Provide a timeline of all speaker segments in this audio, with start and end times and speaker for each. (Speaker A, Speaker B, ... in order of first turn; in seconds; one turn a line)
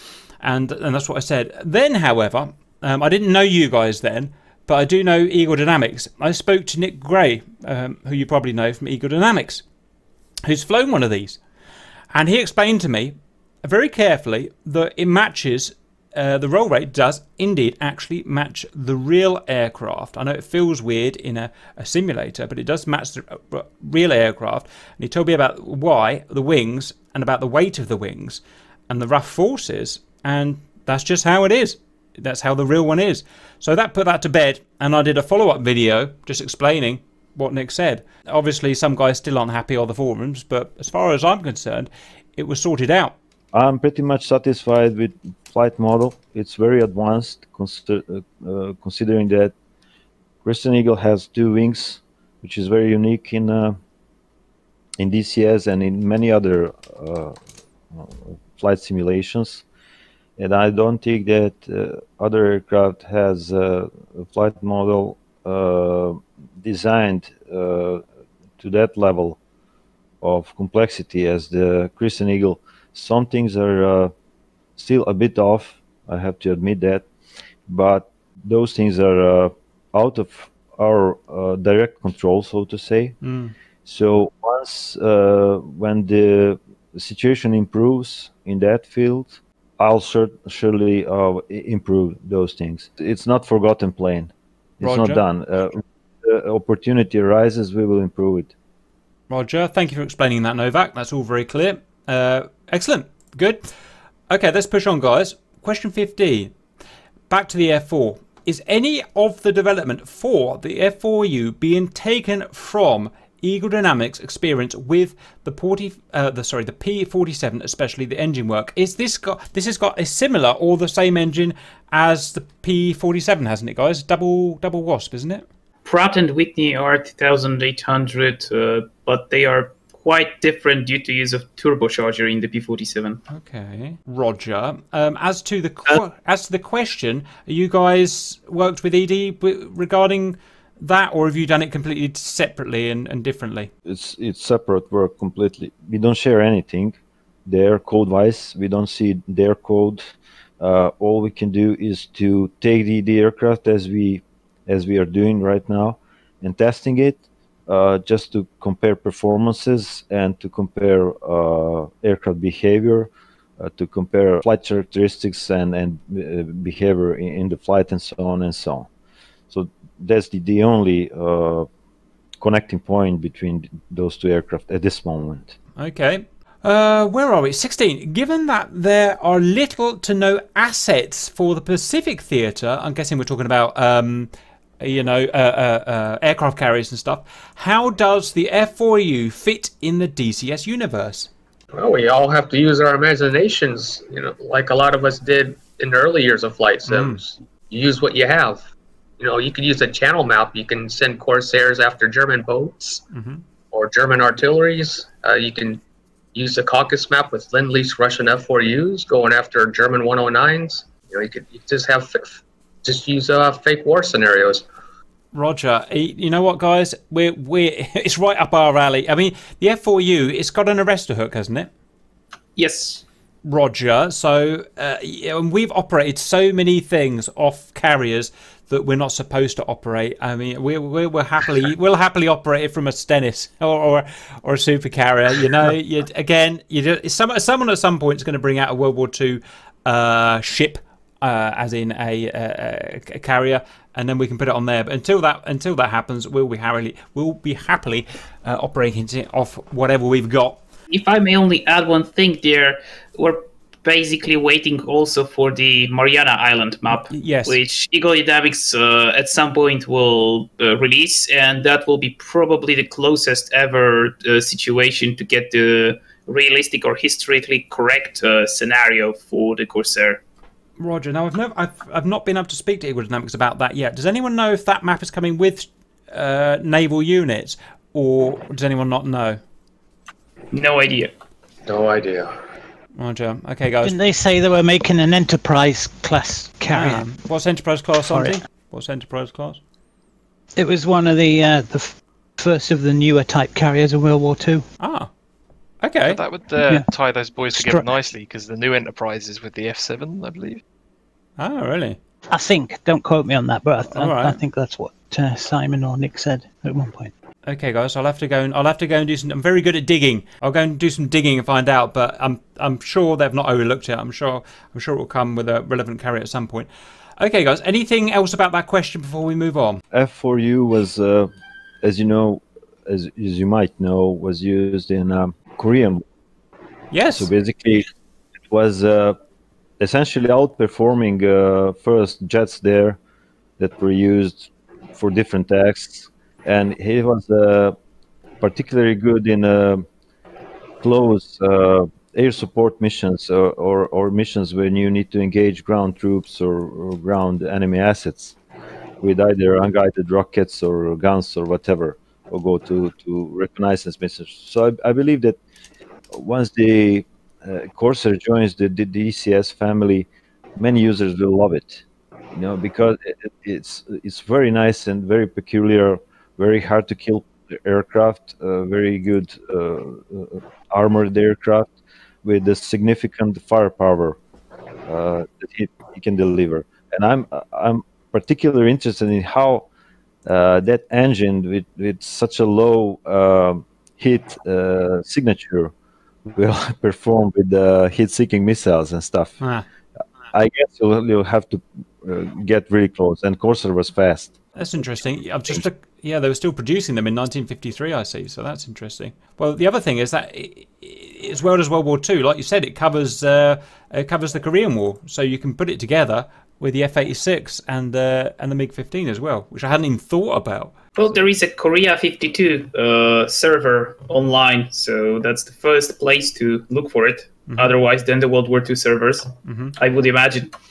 Speaker A: 0.4-9.6
Speaker A: 10.5-11.4
Speaker A: 12.1-43.1
Speaker B: 43.5-49.5
Speaker B: 50.4-53.8
Speaker B: 55.0-57.4
Speaker B: 57.9-59.6
Speaker B: 60.4-68.0
Speaker B: 68.6-69.4
Speaker B: 70.2-74.1
Speaker B: 74.8-77.0
Speaker B: 77.7-83.2
Speaker A: 83.2-83.5
Speaker B: 83.8-98.5
Speaker A: 94.8-95.2
Speaker A: 99.3-103.6
Speaker A: 104.3-106.5
Speaker A: 107.3-125.4
Speaker C: 125.8-133.2
Speaker A: 133.3-143.7
Speaker B: 143.8-168.9
Speaker B: 169.5-171.7
Speaker B: 172.4-175.5
Speaker A: 175.8-191.3
Speaker D: 191.7-198.6
Speaker A: 196.9-197.2
Speaker D: 199.2-203.0
Speaker A: 203.1-203.4
Speaker D: 203.7-205.8
Speaker D: 206.3-212.3
Speaker D: 212.8-214.6
Speaker A: 215.3-221.7
Speaker C: 222.6-223.0
Speaker A: 223.4-250.6
Speaker C: 250.9-270.2
Speaker A: 256.9-257.6
Speaker A: 270.8-279.4
Speaker C: 280.5-281.1
Speaker D: 281.6-282.3
Speaker A: 283.0-283.9
Speaker E: 283.8-287.0
Speaker A: 286.7-289.6
Speaker E: 288.1-288.4
Speaker E: 290.6-294.6
Speaker A: 294.8-295.1
Speaker A: 295.8-296.2
Speaker F: 296.0-300.6
Speaker E: 297.5-297.9
Speaker A: 301.4-302.0
Speaker E: 302.3-307.1
Speaker A: 303.9-304.4
Speaker A: 307.4-319.8
Speaker B: 319.9-321.3
Speaker B: 321.8-326.0
Speaker A: 326.9-327.3
Speaker B: 327.1-327.9
Speaker B: 328.5-329.2
Speaker B: 329.8-333.0
Speaker B: 333.6-337.8
Speaker B: 338.4-339.9
Speaker B: 340.8-348.4
Speaker B: 349.0-355.4
Speaker B: 356.1-360.1
Speaker B: 360.6-371.7
Speaker B: 372.2-374.2
Speaker B: 374.9-379.6
Speaker B: 380.2-385.7
Speaker B: 386.3-389.4
Speaker A: 389.4-389.6
Speaker B: 390.3-394.4
Speaker A: 394.6-410.8
Speaker C: 411.0-420.5
Speaker A: 417.5-417.7
Speaker A: 419.4-419.7